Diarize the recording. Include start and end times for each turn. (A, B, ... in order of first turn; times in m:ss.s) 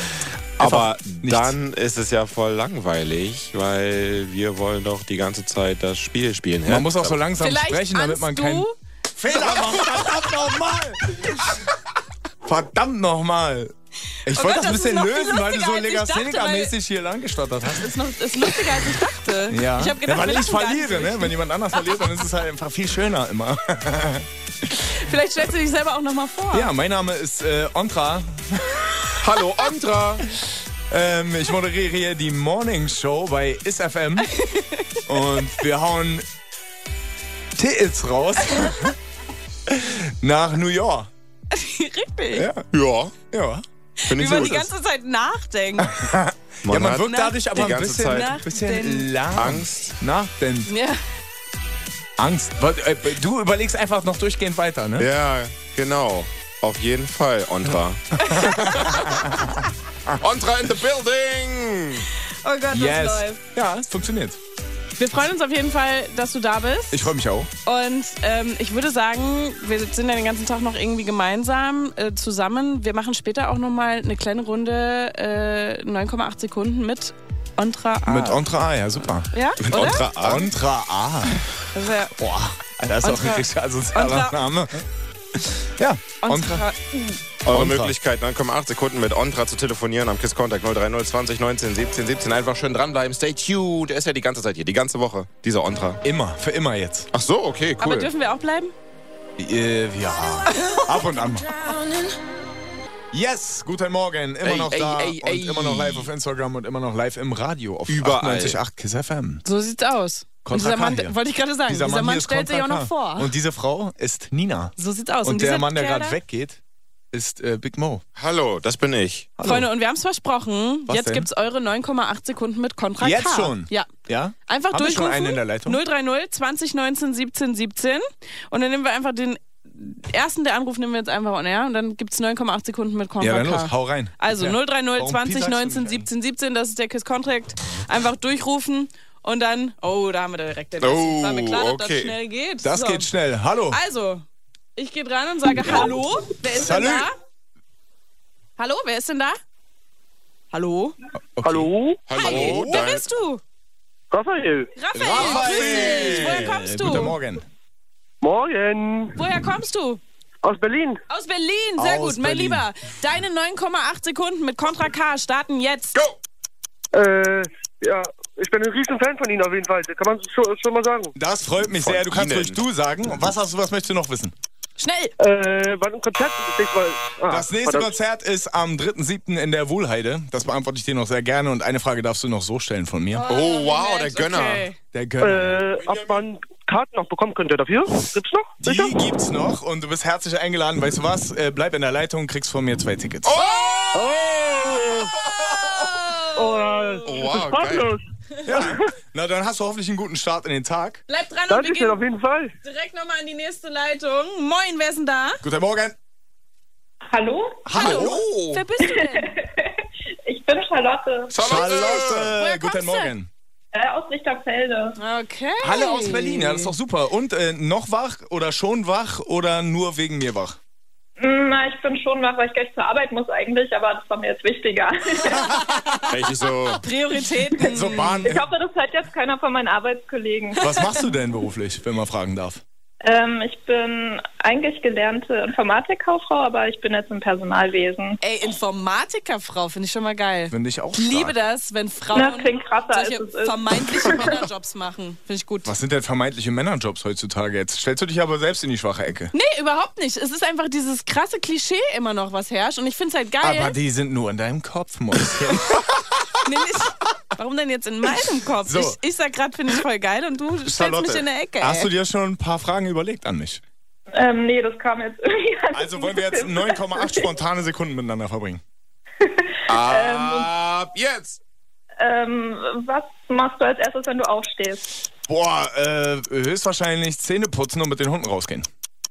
0:00.6-0:01.6 A
0:00.6-0:07.2 B
0:06.6-0:11.1 A
0:07.4-0:08.7 C
0:09.3-0:09.8 C
0:12.4-0:13.7 A
0:14.2-0:17.9 A
0:14.3-0:16.7 C
0:17.7-0:21.3 C
0:19.5-0:24.3 A
0:24.9-0:26.7 C
0:26.5-0:29.1 A
0:29.2-0:30.2 B
0:30.9-0:34.3 A
0:34.3-0:35.0 C
0:35.1-0:36.2 A
0:37.6-0:38.9 A
0:39.7-0:41.1 A
0:41.5-0:42.5 C
0:42.3-0:42.7 A
0:42.7-0:43.2 B
0:43.3-0:43.6 A
0:44.0-0:45.9 C
0:44.1-0:44.7 B
0:45.8-0:50.7 A
0:46.6-0:48.4 B
0:47.0-0:49.1 C
0:49.3-0:49.9 B
0:50.7-0:51.0 C
0:52.2-0:55.1 A
0:55.0-0:59.3 B
0:58.6-0:59.4 A
1:00.2-1:02.0 B
1:02.4-1:03.4 C
1:02.7-1:04.4 A
1:05.0-1:07.1 C
1:06.9-1:07.5 A
1:07.6-1:18.4 C
1:18.0-1:21.4 A
1:19.3-1:20.0 C
1:19.7-1:20.5 B
1:21.7-1:22.1 C
1:22.2-1:24.8 A
1:23.0-1:24.4 C
1:25.4-1:26.6 A
1:26.2-1:27.2 C
1:27.4-1:27.9 A
1:27.4-1:36.0 B
1:36.0-1:37.1 A
1:37.1-1:38.1 B
1:37.8-1:38.7 C
1:39.4-1:41.5 A
1:43.1-1:49.4 A
1:44.4-1:46.1 B
1:47.9-1:48.6 B
1:49.4-1:53.3 C
1:50.4-1:51.2 A
1:51.7-1:56.6 A
1:54.8-1:56.2 C
1:57.1-1:58.0 A
1:58.2-1:59.3 B
1:59.4-1:59.7 A
1:59.4-2:03.9 C
2:00.9-2:01.3 A
2:03.0-2:05.8 A
2:04.5-2:23.1 C
2:13.2-2:16.1 A
2:20.8-2:22.2 B
2:22.6-2:23.8 A
2:23.7-2:24.2 C
2:24.8-2:27.2 C
2:26.4-2:27.1 A
2:28.6-2:29.4 C
2:30.5-2:31.0 C
2:31.4-2:32.9 A
2:31.4-2:32.0 D
2:32.0-2:33.0 B
2:32.2-2:33.4 C
2:34.1-2:34.7 D
2:34.7-2:37.2 C
2:34.9-2:37.4 A
2:35.1-2:36.5 B
2:38.2-2:39.2 D
2:39.1-2:40.0 C
2:40.4-2:41.0 D
2:41.1-2:46.0 C
2:41.8-2:42.6 A
2:46.9-2:51.1 D
2:51.1-2:54.3 A
2:51.6-2:52.6 B
2:54.8-2:55.1 C
2:55.2-2:57.9 D
2:57.3-3:03.3 A
3:03.1-3:04.8 C
3:03.3-3:04.7 B
3:04.9-3:05.7 A
3:05.2-3:08.9 D
3:08.6-3:13.4 A
3:13.2-3:14.3 B
3:13.4-3:13.6 C
3:13.9-3:14.7 D
3:15.3-3:15.6 B
3:15.7-3:17.3 C
3:16.4-3:18.0 D
3:17.0-3:17.9 B
3:18.4-3:21.0 A
3:21.1-3:22.0 C
3:21.5-3:22.5 D
3:22.6-3:25.4 C
3:25.4-3:26.0 A
3:27.1-3:27.6 E
3:27.6-3:28.2 A
3:27.7-3:28.6 B
3:27.7-3:29.3 C
3:28.8-3:31.6 E
3:31.3-3:32.3 B
3:31.4-3:33.3 A
3:32.1-3:33.1 C
3:33.7-3:34.9 E
3:35.0-3:36.7 C
3:35.6-3:40.6 A
3:41.2-3:45.6 E
3:46.1-3:46.8 B
3:46.8-3:48.3 C
3:47.6-3:48.4 A
3:48.2-3:50.9 E
3:50.6-3:52.6 A
3:53.0-3:58.2 E
3:58.2-4:05.7 C
4:00.5-4:01.3 A
4:02.1-4:04.4 E
4:05.6-4:09.3 A
4:09.3-4:13.7 C
4:13.4-4:16.0 A
4:16.4-4:21.9 C
4:18.6-4:19.0 A
4:20.6-4:23.6 A
4:24.1-4:27.3 E
4:25.7-4:28.6 A
4:29.2-4:30.5 E
4:29.7-4:31.4 B
4:32.0-4:34.8 E
4:35.3-4:38.7 A